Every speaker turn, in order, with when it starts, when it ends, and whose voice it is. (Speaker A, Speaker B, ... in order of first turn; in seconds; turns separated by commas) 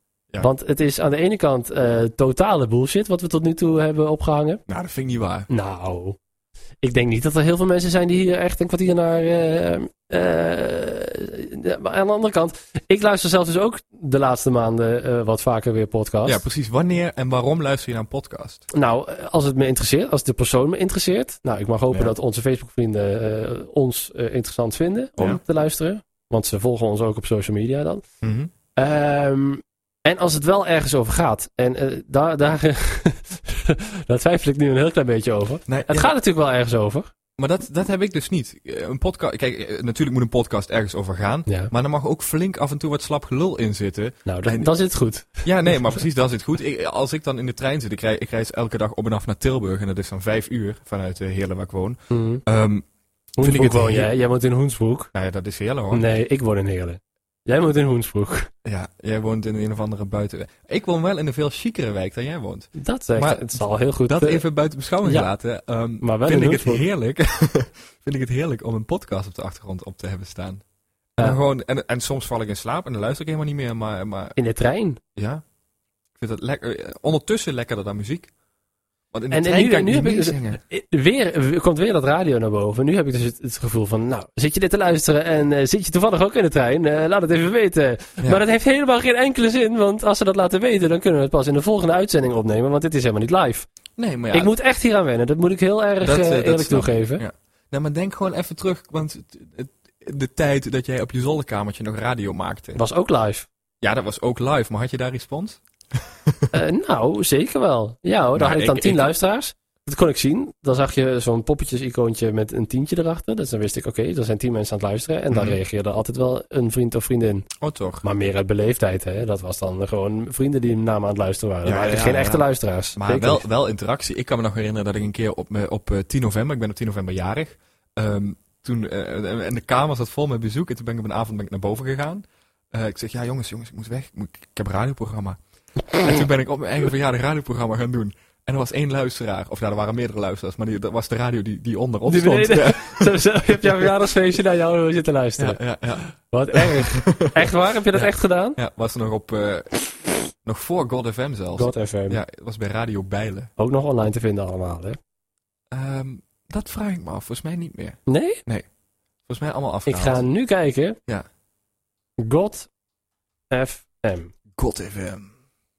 Speaker A: 0.4-4.6, Speaker B: 4.7-5.5, Speaker A: 5.5-6.2, Speaker A: 6.8-16.4, Speaker B: 16.2-18.6, Speaker A: 18.7-28.0, Speaker B: 28.2-28.5, Speaker A: 28.8-37.1, Speaker B: 35.7-36.1, Speaker B: 37.4-44.7, Speaker A: 41.5-41.7, Speaker A: 44.2-45.9, Speaker B: 45.4-52.8, Speaker A: 52.1-52.4, Speaker B: 53.4-54.1, Speaker A: 53.4-55.1, Speaker B: 55.1-56.0, Speaker A: 55.9-58.5, Speaker B: 58.6-70.6, Speaker A: 62.8-64.4, Speaker A: 65.0-65.3, Speaker A: 66.0-66.8, Speaker B: 71.2-74.3, Speaker A: 74.3-75.0, Speaker B: 75.2-75.4, Speaker B: 76.2-78.3, Speaker B: 79.1-80.6, Speaker A: 79.3-93.7, Speaker B: 94.0-94.5, Speaker A: 94.3-97.2, Speaker B: 96.0-102.8, Speaker A: 102.8-103.5, Speaker B: 103.8-105.6, Speaker A: 106.5-117.5, Speaker B: 108.3-109.1, Speaker B: 115.3-115.6, Speaker B: 117.6-118.0, Speaker A: 118.0-123.4, Speaker B: 121.6-122.4, Speaker B: 123.0-135.4, Speaker B: 135.9-143.9, Speaker A: 142.1-145.6, Speaker B: 145.4-153.5, Speaker A: 146.2-148.6, Speaker A: 151.6-152.2, Speaker A: 153.6-155.0, Speaker B: 155.7-158.6, Speaker A: 158.1-158.4, Speaker B: 159.3-160.2, Speaker A: 159.9-161.0, Speaker A: 162.2-162.7, Speaker A: 163.5-164.3, Speaker B: 164.6-165.3